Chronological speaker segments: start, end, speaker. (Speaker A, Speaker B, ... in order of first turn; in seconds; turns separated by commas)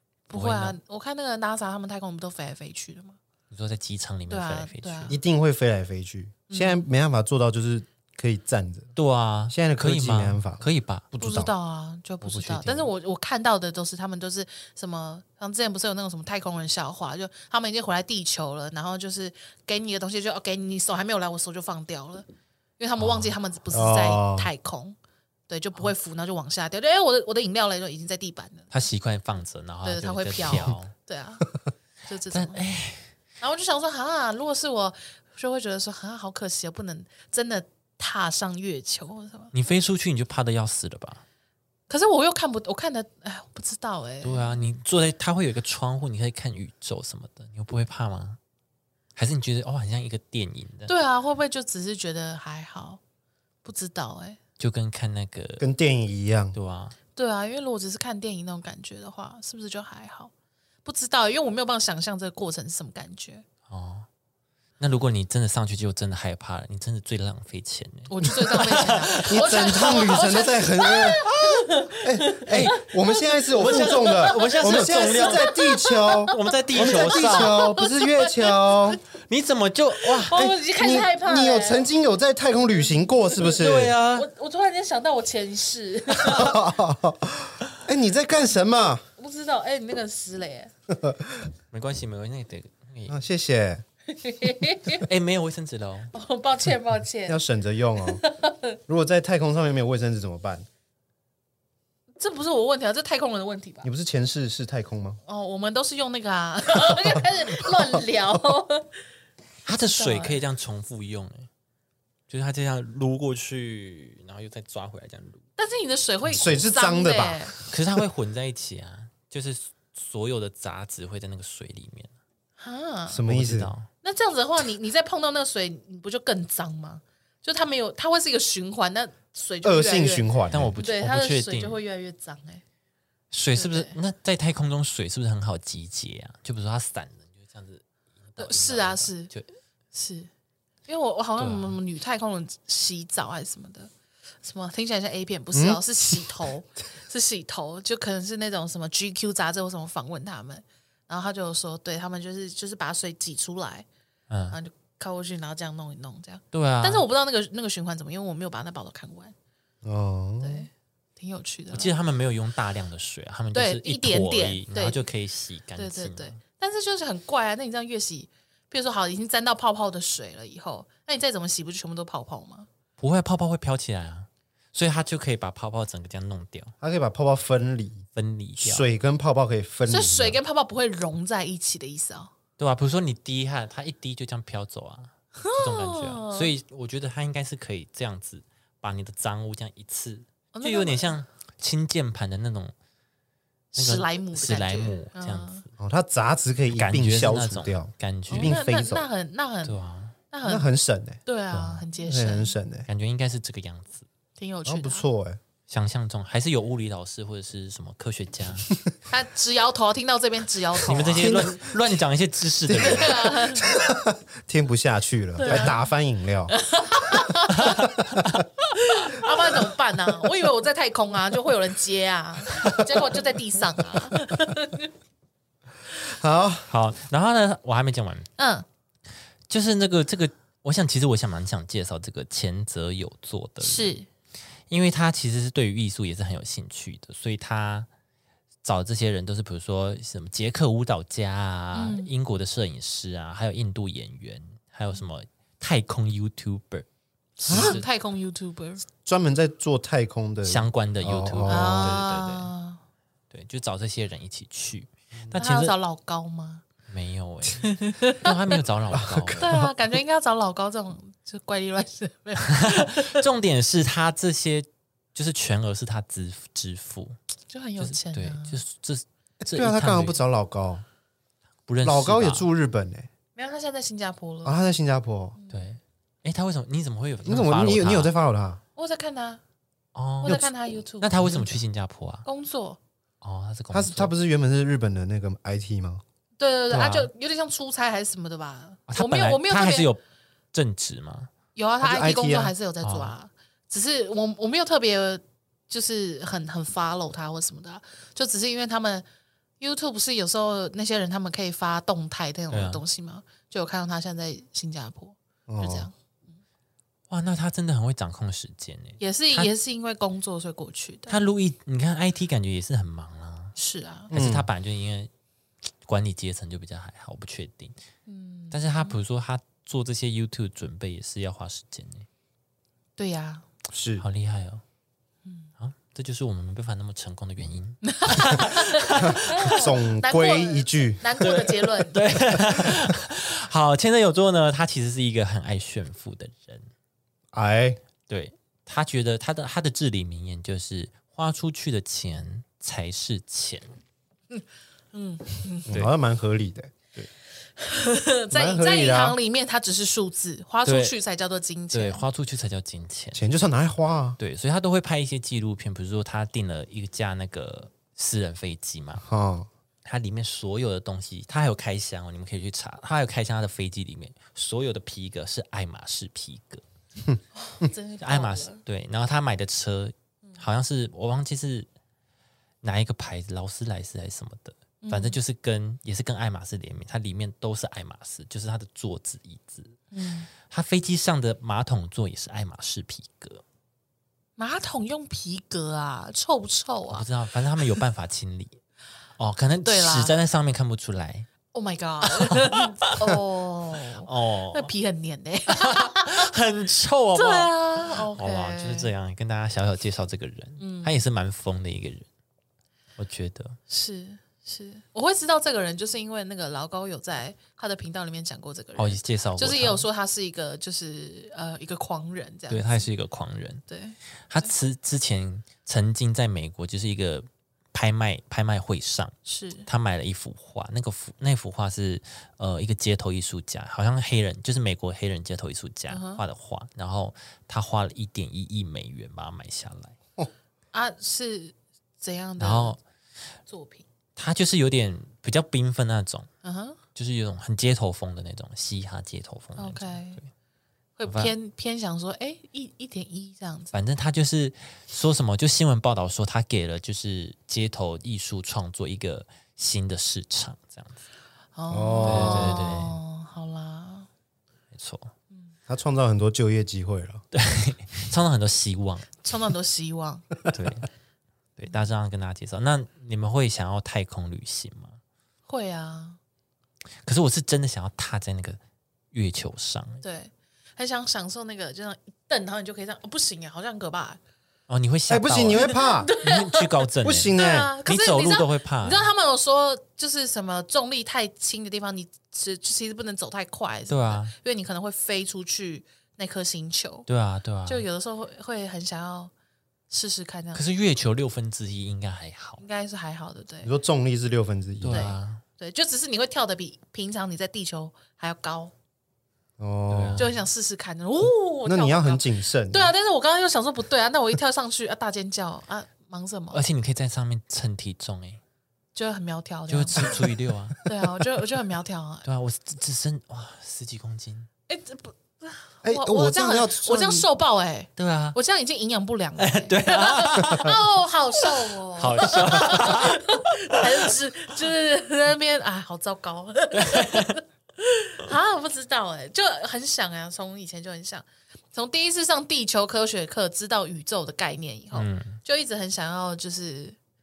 Speaker A: 0.3-3.2, Speaker B: 0.3-0.8, Speaker B: 3.5-5.2, Speaker A: 4.3-5.2, Speaker C: 5.1-8.9, Speaker A: 6.5-6.8, Speaker B: 8.9-11.1, Speaker C: 9.5-10.7, Speaker C: 11.2-11.5, Speaker A: 11.2-22.3, Speaker B: 12.2-12.9, Speaker A: 22.8-25.0, Speaker B: 23.0-23.3, Speaker C: 23.7-24.5, Speaker A: 25.5-28.7, Speaker B: 28.7-30.9, Speaker A: 29.8-31.5, Speaker A: 32.1-32.6, Speaker B: 32.3-33.1, Speaker A: 33.4-39.5, Speaker B: 39.5-41.2, Speaker A: 41.9-44.7, Speaker B: 44.2-48.4, Speaker B: 49.2-50.9, Speaker A: 50.9-53.0, Speaker A: 53.6-54.4, Speaker B: 54.6-55.6, Speaker C: 55.6-56.5, Speaker B: 56.5-57.0, Speaker A: 57.1-60.3, Speaker A: 60.9-63.5, Speaker B: 63.7-64.1, Speaker B: 64.8-69.9, Speaker A: 68.1-79.0, Speaker C: 69.1-79.0, Speaker B: 72.5-72.8, Speaker B: 73.6-75.5, Speaker B: 76.2-77.6, Speaker B: 79.3-80.4, Speaker A: 80.0-81.9, Speaker C: 80.3-84.0, Speaker A: 82.8-86.6, Speaker B: 83.4-84.3, Speaker C: 86.1-89.0, Speaker A: 89.2-90.7, Speaker C: 90.9-91.5, Speaker B: 91.7-93.2, Speaker C: 93.1-93.8, Speaker A: 94.1-95.1, Speaker B: 94.9-96.1, Speaker A: 96.1-97.4, Speaker C: 97.3-98.2, Speaker A: 98.0-98.8, Speaker C: 98.9-100.7, Speaker A: 102.2-103.9, Speaker C: 103.8-105.2, Speaker A: 105.3-108.9, Speaker B: 109.7-111.5, Speaker A: 110.0-110.4, Speaker B: 112.3-115.4, Speaker A: 115.6-117.5, Speaker C: 116.3-117.6, Speaker B: 117.7-122.1, Speaker A: 122.6-123.2, Speaker C: 123.1-123.7, Speaker B: 123.2-123.9, Speaker A: 124.0-132.6, Speaker C: 129.6-130.8, Speaker B: 130.5-131.8, Speaker B: 133.3-139.5, Speaker A: 133.5-134.0, Speaker A: 138.4-139.3, Speaker A: 139.9-140.3, Speaker A: 140.9-143.9, Speaker B: 141.4-141.8, Speaker A: 144.4-153.9, Speaker C: 145.5-145.8, Speaker B: 154.3-154.6, Speaker A: 154.5-159.3, Speaker B: 156.5-157.1, Speaker C: 159.8-160.7, Speaker A: 160.4-161.9, Speaker B: 161.7-166.4, Speaker A: 163.5-165.0, Speaker A: 165.8-172.7, Speaker B: 173.0-176.7, Speaker C: 176.8-178.1, Speaker B: 178.2-178.9, Speaker C: 178.6-180.4, Speaker A: 179.9-182.3, Speaker B: 182.6-192.7, Speaker A: 185.4-186.5, Speaker A: 190.5-191.1, Speaker A: 193.7-195.6, Speaker B: 193.8-195.7, Speaker C: 195.8-199.1, Speaker B: 196.7-198.6, Speaker A: 198.3-199.8, Speaker B: 199.6-200.2, Speaker A: 200.3-200.7, Speaker C: 200.4-202.9, Speaker A: 201.3-202.6, Speaker B: 202.9-204.1, Speaker A: 204.4-205.1, Speaker C: 204.7-205.4, Speaker B: 205.7-208.7, Speaker A: 209.1-211.5, Speaker B: 210.8-213.3, Speaker C: 211.1-211.7, Speaker C: 212.7-216.6, Speaker A: 212.7-213.7, Speaker A: 215.4-215.9, Speaker A: 216.5-218.0, Speaker B: 217.5-218.4, Speaker C: 217.7-218.4, Speaker A: 218.7-224.9, Speaker C: 222.7-223.0, Speaker C: 226.0-226.7, Speaker B: 226.7-228.3, Speaker A: 228.4-228.7, Speaker B: 229.5-233.9, Speaker A: 233.6-234.1, Speaker B: 234.7-237.9, Speaker B: 238.6-246.9, Speaker A: 241.8-242.1, Speaker A: 247.4-248.8, Speaker B: 247.4-247.9, Speaker C: 247.5-247.8, Speaker C: 249.1-252.0, Speaker B: 250.4-252.5, Speaker A: 251.5-252.8, Speaker B: 253.3-255.8, Speaker A: 255.3-256.6, Speaker B: 256.9-259.6, Speaker A: 257.6-258.4, Speaker C: 258.9-259.7, Speaker A: 259.4-263.2, Speaker B: 262.4-267.2, Speaker A: 267.5-268.6, Speaker B: 267.8-270.2, Speaker C: 269.5-270.9, Speaker B: 271.7-272.5, Speaker C: 271.8-273.1, Speaker A: 273.4-274.6, Speaker C: 274.4-275.4, Speaker A: 275.4-275.7, Speaker B: 275.5-278.1, Speaker C: 277.2-278.6, Speaker A: 278.8-279.4, Speaker B: 279.9-280.4, Speaker A: 280.2-281.5, Speaker C: 280.3-280.5, Speaker B: 281.0-282.3, Speaker A: 282.2-282.8, Speaker B: 283.2-284.1, Speaker C: 283.7-286.0, Speaker A: 286.4-289.9, Speaker B: 286.7-287.1, Speaker B: 288.9-290.0, Speaker B: 290.5-291.3, Speaker A: 291.6-299.1, Speaker C: 291.8-292.5, Speaker B: 292.8-293.1, Speaker A: 299.6-305.9, Speaker B: 302.5-302.8, Speaker C: 305.5-305.9, Speaker B: 307.1-309.5, Speaker A: 309.0-311.2, Speaker B: 311.1-313.5, Speaker A: 313.6-314.1, Speaker C: 314.1-314.5, Speaker B: 314.1-315.1, Speaker B: 315.9-317.8, Speaker A: 318.1-319.0, Speaker B: 318.5-322.1, Speaker A: 323.0-323.5, Speaker C: 323.7-324.0, Speaker B: 324.0-324.6, Speaker A: 325.2-325.5, Speaker B: 325.6-329.5, Speaker A: 327.8-332.1, Speaker C: 329.0-331.0, Speaker B: 331.2-336.7, Speaker C: 337.3-337.8, Speaker B: 338.1-343.8, Speaker A: 344.3-345.8, Speaker C: 345.7-346.7, Speaker A: 347.6-352.0, Speaker C: 348.3-349.2, Speaker B: 350.6-350.9, Speaker B: 351.7-353.2, Speaker C: 353.1-354.2, Speaker B: 354.2-359.1, Speaker C: 359.0-359.5, Speaker B: 359.9-366.6, Speaker A: 367.4-368.6, Speaker B: 368.0-371.7, Speaker B: 372.6-379.8, Speaker A: 374.8-375.2, Speaker A: 379.9-380.3, Speaker B: 380.4-383.4, Speaker A: 384.4-387.1, Speaker B: 386.9-388.6, Speaker B: 389.2-391.3, Speaker A: 389.6-390.1, Speaker A: 391.5-396.3, Speaker B: 392.0-393.1, Speaker B: 394.0-394.7, Speaker B: 395.5-402.1, Speaker A: 397.1-398.9, Speaker A: 400.6-401.0, Speaker B: 403.0-403.6, Speaker A: 403.7-412.9, Speaker B: 408.8-409.9, Speaker B: 412.5-413.6, Speaker A: 413.7-414.5, Speaker B: 414.3-419.1, Speaker A: 419.2-419.7, Speaker B: 419.7-429.9, Speaker A: 425.9-426.2, Speaker A: 430.7-432.8, Speaker B: 432.4-432.8, Speaker A: 433.5-433.9, Speaker B: 434.2-436.3, Speaker A: 436.4-436.8, Speaker B: 436.9-440.3, Speaker A: 439.6-440.2, Speaker A: 441.0-443.7, Speaker B: 441.1-441.3, Speaker B: 443.7-451.0, Speaker A: 451.6-454.1, Speaker C: 451.7-452.7, Speaker B: 452.1-453.0, Speaker B: 454.7-455.1, Speaker C: 455.7-457.2, Speaker B: 457.3-459.1, Speaker A: 459.2-460.4, Speaker B: 460.5-460.9, Speaker B: 461.6-465.0, Speaker A: 465.5-466.2, Speaker B: 467.1-468.6, Speaker B: 469.1-470.0, Speaker A: 470.0-474.2, Speaker B: 474.7-479.1, Speaker C: 475.1-476.1, Speaker A: 475.6-487.1, Speaker C: 477.0-477.7, Speaker B: 483.9-484.3, Speaker B: 487.1-487.8, Speaker A: 487.7-489.3, Speaker A: 489.9-490.6, Speaker B: 490.5-492.6, Speaker A: 492.6-493.7, Speaker C: 493.6-495.1, Speaker B: 494.8-495.4, Speaker A: 494.9-498.7, Speaker C: 499.6-500.3, Speaker B: 499.9-500.3, Speaker A: 500.2-506.6, Speaker C: 501.6-502.9, Speaker B: 506.5-508.4, Speaker A: 508.9-510.2, Speaker B: 509.7-510.9, Speaker A: 510.9-512.3, Speaker B: 512.2-514.5, Speaker A: 514.7-537.0, Speaker C: 515.8-517.3, Speaker B: 518.0-518.4, Speaker B: 519.4-520.8, Speaker B: 522.0-524.1, Speaker B: 526.7-527.4, Speaker B: 534.9-535.4